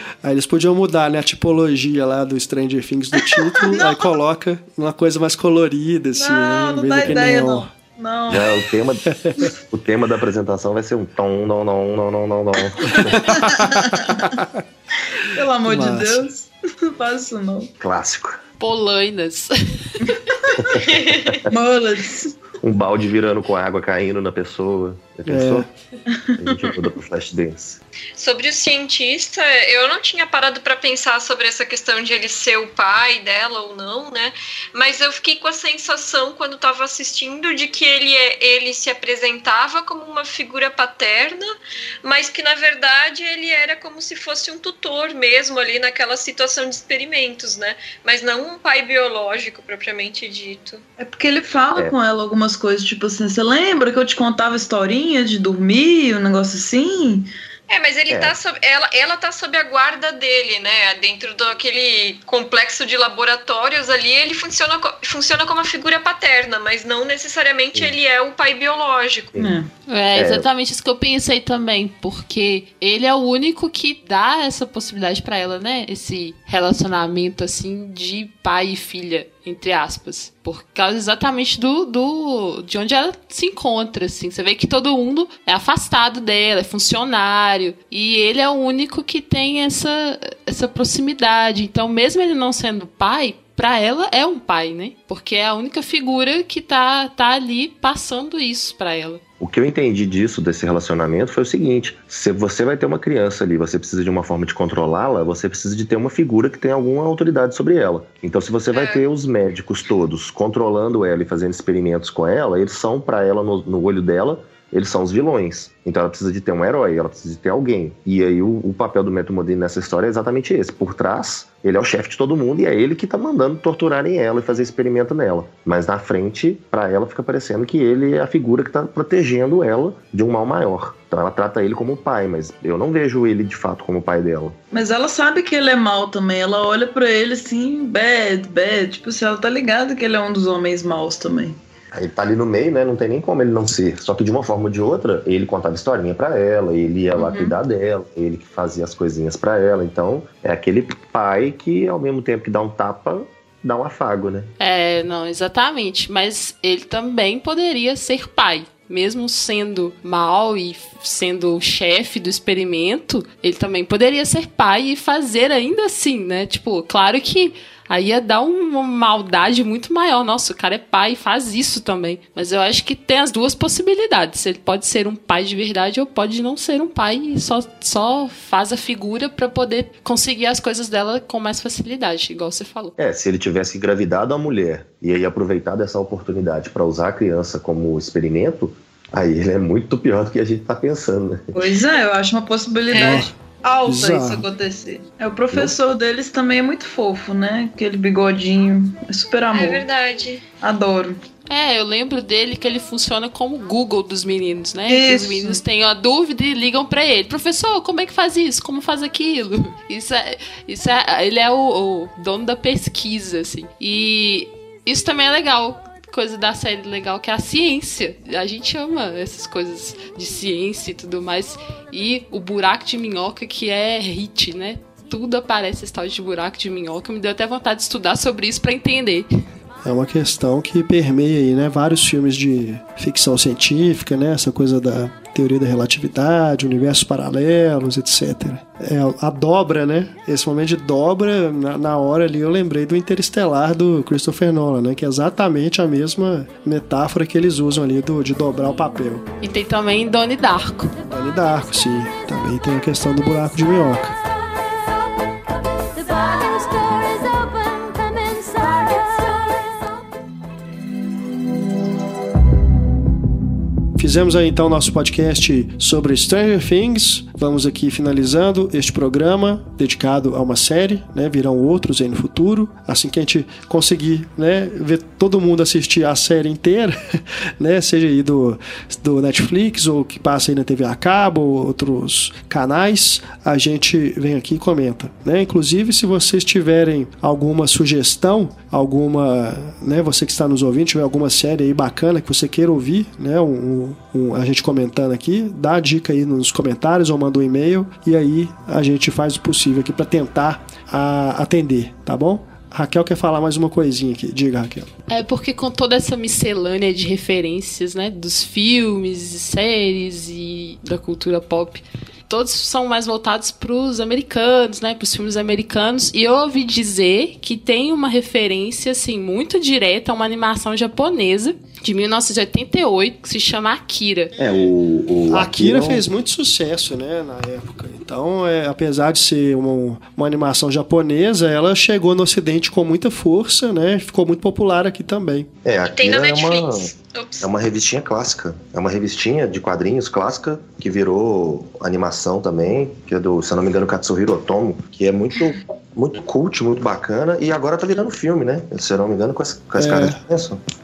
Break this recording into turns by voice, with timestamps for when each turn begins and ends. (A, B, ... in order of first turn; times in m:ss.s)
0:00.2-0:07.7 A
0:03.3-0:04.1 B
0:06.2-0:08.6 B
0:08.3-0:13.6 C
0:09.1-0:09.4 A
0:12.9-0:14.6 A
0:13.2-0:14.4 B
0:15.0-0:17.7 B
0:15.6-0:16.3 A
0:17.8-0:18.4 C
0:18.6-0:20.1 D
0:20.0-0:20.8 B
0:20.6-0:21.4 C
0:20.8-0:21.4 E
0:21.5-0:22.4 B
0:22.6-0:25.7 C
0:25.3-0:25.7 A
0:26.1-0:26.8 B
0:26.4-0:27.8 C
0:28.2-0:50.8 E
0:51.0-0:57.3 B
0:57.7-1:09.4 E
0:58.1-0:58.4 C
1:09.4-1:09.7 B
1:09.9-1:39.2 D
1:10.2-1:10.5 C
1:39.4-2:14.6 C
1:48.7-1:49.0 E
2:14.7-2:21.6 B
2:21.9-2:34.5 C
2:27.2-2:27.6 B
2:34.6-3:02.9 D
3:03.0-3:11.6 C
3:11.5-3:19.8 B
3:12.9-3:13.3 E
3:12.9-3:13.3 A
3:13.9-3:14.5 A
3:19.5-3:20.4 E
3:20.6-3:21.2 B
3:21.5-3:49.3 D
3:24.9-3:25.6 B
3:49.8-4:09.2 A
4:09.4-4:11.0 D
4:11.0-4:14.2 A
4:16.1-4:19.5 D
4:24.0-5:04.9 A
5:05.1-5:24.3 D
5:24.4-5:26.0 C
5:25.3-5:35.5 A
5:35.6-5:50.6 C
5:35.9-5:37.5 E
5:49.8-5:50.2 A